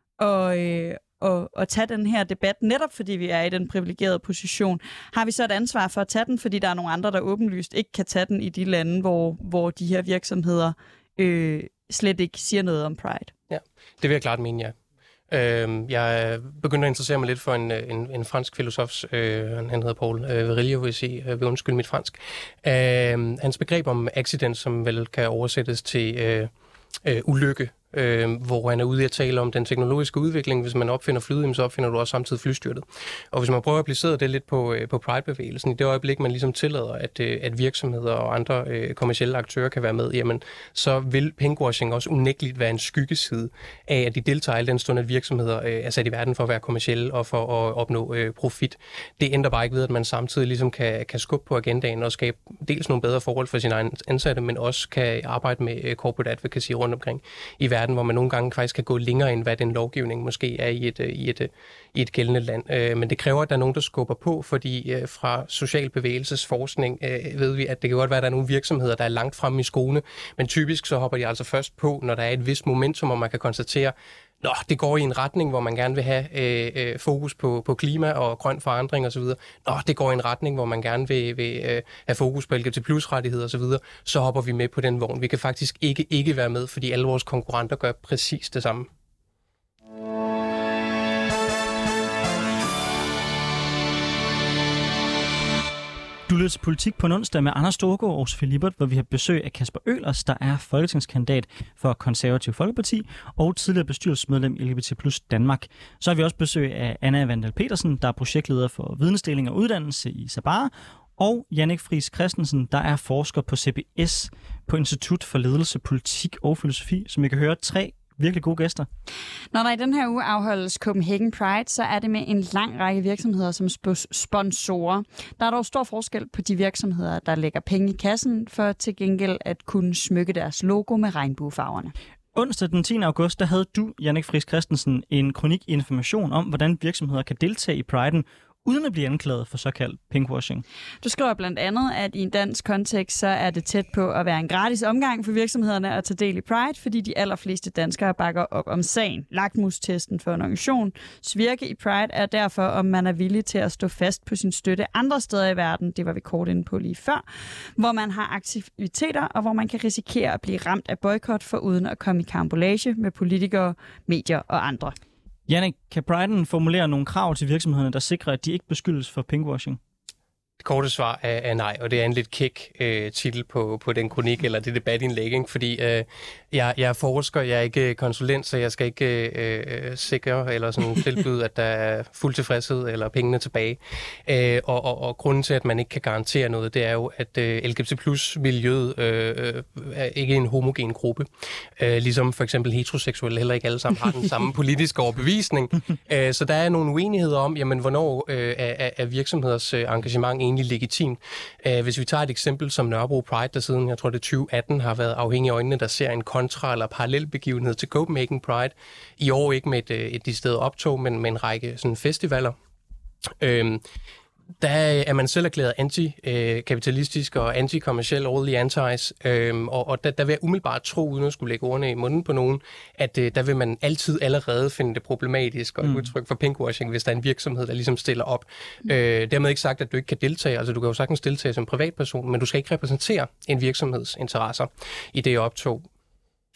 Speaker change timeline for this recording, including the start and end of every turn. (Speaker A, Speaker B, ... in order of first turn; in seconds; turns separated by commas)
Speaker A: 0.2-13.3, Speaker B: 13.5-14.7, Speaker B: 15.3-26.5, Speaker B: 27.0-88.9, Speaker C: 96.3-118.9, Speaker A: 119.5-131.9, Speaker C: 132.3-140.6, Speaker A: 141.0-157.2, Speaker A: 157.8-164.9, Speaker C: 165.5-169.8, Speaker B: 170.6-212.6, Speaker B: 213.4-213.8, Speaker B: 214.6-235.8, Speaker C: 225.8-226.1